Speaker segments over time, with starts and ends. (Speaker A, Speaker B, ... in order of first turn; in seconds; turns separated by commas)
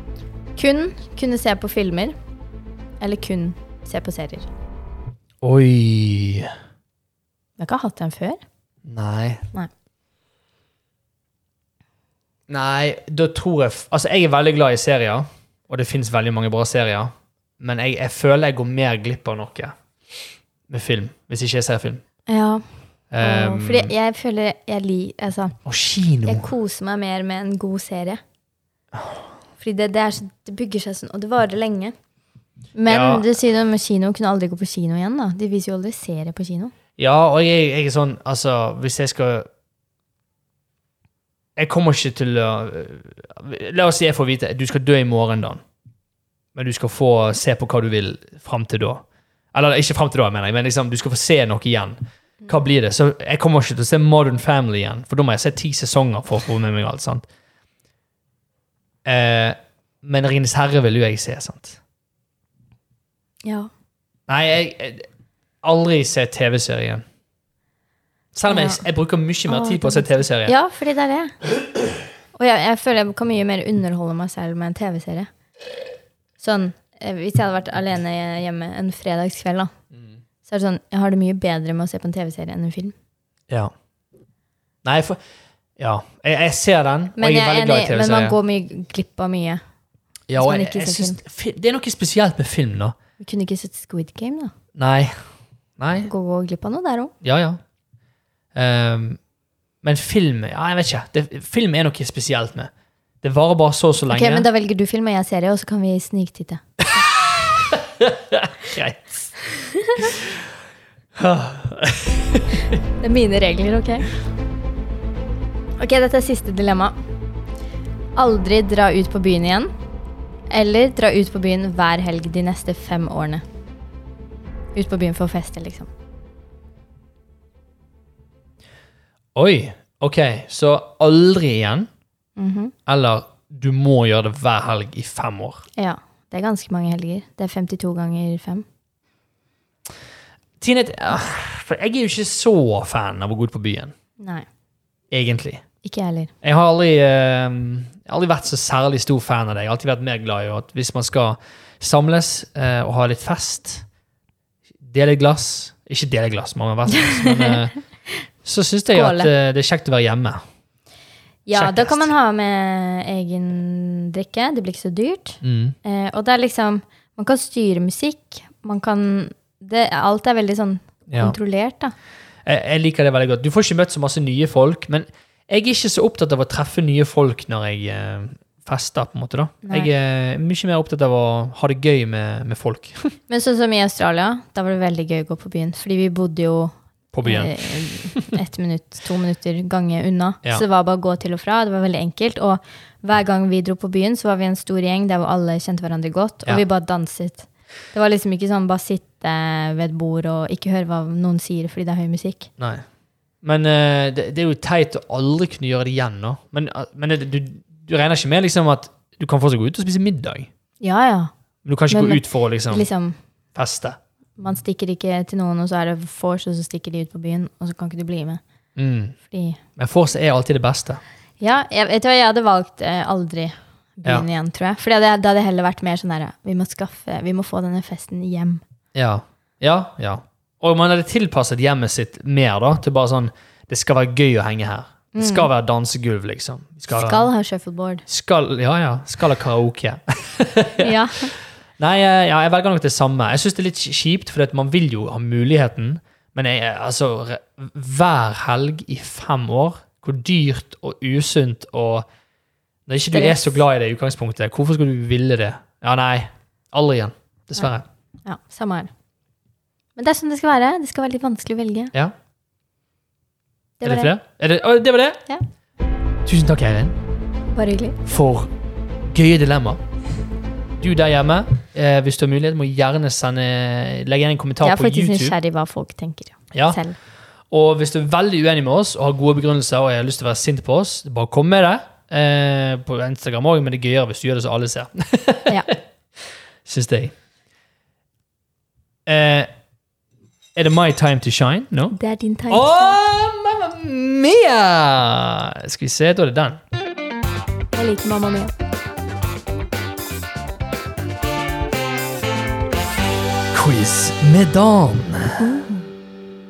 Speaker A: 0.6-2.1, Speaker A: 3.0-4.5, Speaker B: 5.4-6.5, Speaker A: 7.6-8.4, Speaker B: 8.8-9.5, Speaker B: 12.5-19.8, Speaker B: 20.7-22.0, Speaker A: 22.3-22.6, Speaker B: 23.1-23.9, Speaker A: 23.2-25.6, Speaker B: 25.6-26.5, Speaker A: 26.2-28.2, Speaker A: 29.6-31.9, Speaker A: 32.8-36.7, Speaker B: 32.9-33.3, Speaker B: 37.0-39.5, Speaker B: 41.6-45.6, Speaker B: 46.5-57.3, Speaker B: 59.0-61.8, Speaker A: 63.5-63.7, Speaker B: 64.3-65.1, Speaker B: 65.6-67.0, Speaker B: 68.3-70.5, Speaker A: 68.5-68.8, Speaker A: 69.5-71.4, Speaker A: 72.3-75.3, Speaker A: 76.4-79.7, Speaker A: 80.5-82.9, Speaker B: 84.8-85.2, Speaker B: 85.8-88.4, Speaker A: 87.2-89.6, Speaker B: 90.3-93.0, Speaker A: 90.4-91.2, Speaker A: 93.2-94.5, Speaker B: 94.8-95.2, Speaker B: 95.8-96.1, Speaker A: 96.0-97.1, Speaker B: 97.2-97.6, Speaker B: 98.5-99.2, Speaker B: 99.8-102.7, Speaker B: 103.2-104.5, Speaker A: 104.1-106.6, Speaker B: 107.2-109.5, Speaker A: 109.5-110.1, Speaker B: 110.0-110.4, Speaker B: 111.1-112.8, Speaker A: 113.0-114.1, Speaker A: 115.8-117.0, Speaker A: 118.2-119.7, Speaker A: 120.5-123.4, Speaker A: 124.8-125.9, Speaker B: 129.3-131.9, Speaker A: 132.4-132.8, Speaker B: 132.9-135.6, Speaker A: 135.8-138.7, Speaker B: 140.6-143.9, Speaker A: 144.2-144.5, Speaker B: 145.1-145.6, Speaker A: 145.8-146.3, Speaker B: 146.4-153.8, Speaker B: 154.8-157.8, Speaker A: 156.9-157.6, Speaker B: 158.4-160.4, Speaker A: 158.9-159.3, Speaker A: 161.5-171.9, Speaker B: 161.5-162.1, Speaker B: 165.4-165.8, Speaker B: 171.1-171.4, Speaker B: 172.5-183.1, Speaker A: 179.6-179.9, Speaker A: 183.3-186.7, Speaker B: 187.1-187.7, Speaker A: 187.2-202.5, Speaker B: 202.6-202.8, Speaker B: 203.4-210.5, Speaker A: 210.8-211.3, Speaker B: 211.6-212.9, Speaker A: 211.9-213.2, Speaker B: 213.6-214.0, Speaker A: 214.4-218.4, Speaker B: 218.8-219.1, Speaker A: 219.3-219.6, Speaker B: 219.8-221.0, Speaker A: 221.4-228.6, Speaker B: 228.9-237.3, Speaker A: 235.1-235.5, Speaker A: 236.9-238.1, Speaker B: 238.1-241.0, Speaker A: 240.8-241.3, Speaker B: 241.8-252.1, Speaker B: 252.9-257.9, Speaker A: 253.1-253.6, Speaker A: 258.2-258.9, Speaker A: 260.0-261.9, Speaker A: 263.8-264.1, Speaker B: 263.8-265.2, Speaker B: 266.2-267.0, Speaker A: 267.5-268.0, Speaker B: 268.1-268.5, Speaker B: 269.1-269.8, Speaker B: 270.8-275.4, Speaker A: 274.6-277.0, Speaker B: 276.5-276.8, Speaker B: 277.5-285.8, Speaker B: 286.6-287.1, Speaker B: 289.1-289.5, Speaker B: 290.6-292.0, Speaker A: 291.9-293.0, Speaker B: 292.5-296.6, Speaker A: 297.7-298.5, Speaker B: 303.5-305.6, Speaker A: 305.4-305.9